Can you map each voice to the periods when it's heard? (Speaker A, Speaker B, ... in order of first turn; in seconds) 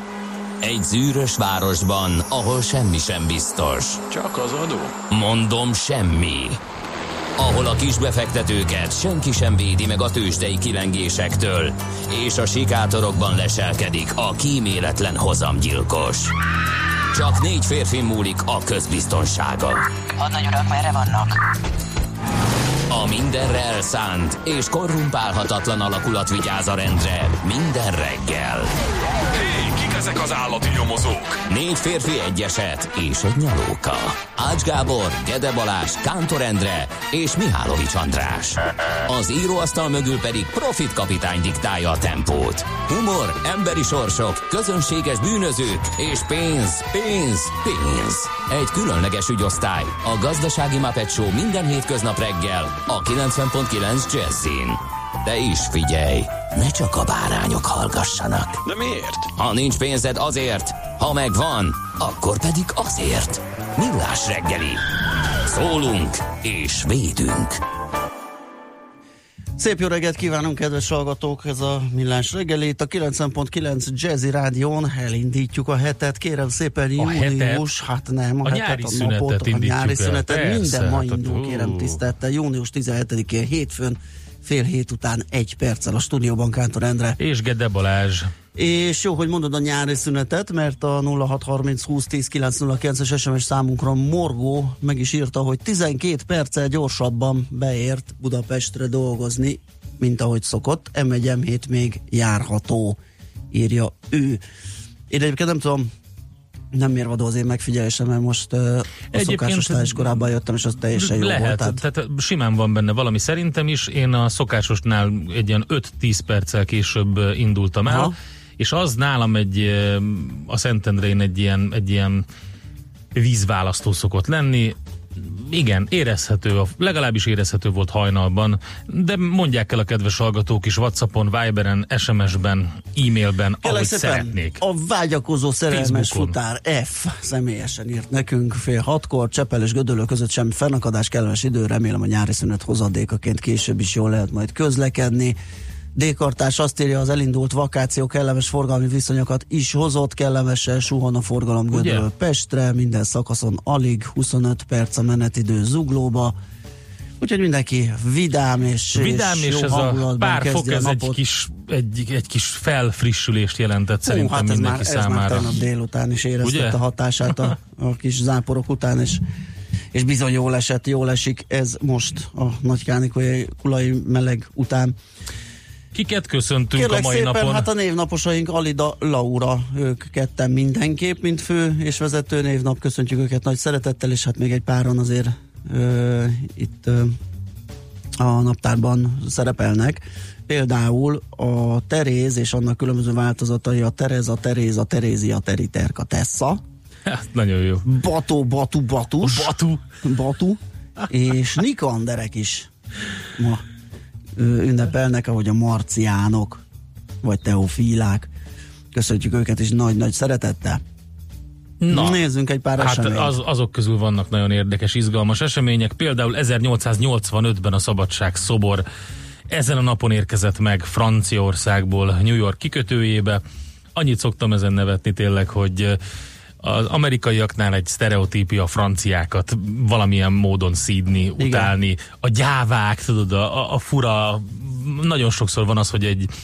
Speaker A: 0.6-4.0, 5.1-6.6, 7.4-16.4, 17.1-21.4, 22.9-28.7, 31.5-58.6, 59.4-64.8, 65.4-67.6
Speaker B: 4.1-4.9, 29.4-31.4, 58.6-59.3
Speaker C: 69.6-87.2, 88.5-103.0, 103.5-104.4, 105.1-105.9, 106.7-111.8, 117.8-118.1, 133.6-145.4, 145.9-156.3, 157.2-161.2, 164.0-169.2, 169.9-174.9, 176.7-187.2, 188.2-196.6, 197.8-202.7, 203.3-203.6, 204.3-206.6, 207.2-208.3, 208.9-210.8, 211.9-213.3, 231.4-231.7
Speaker D: 77.0-77.7, 78.4-82.0, 87.2-88.3, 109.1-110.2, 110.9-122.2, 123.1-134.6, 135.7-136.4, 151.7-152.1, 158.9-165.6, 166.4-166.8, 175.9-177.7, 197.1-197.9, 199.2-199.9, 211.8-212.2, 212.8-218.8, 219.5-223.4, 223.9-226.0, 226.6-236.3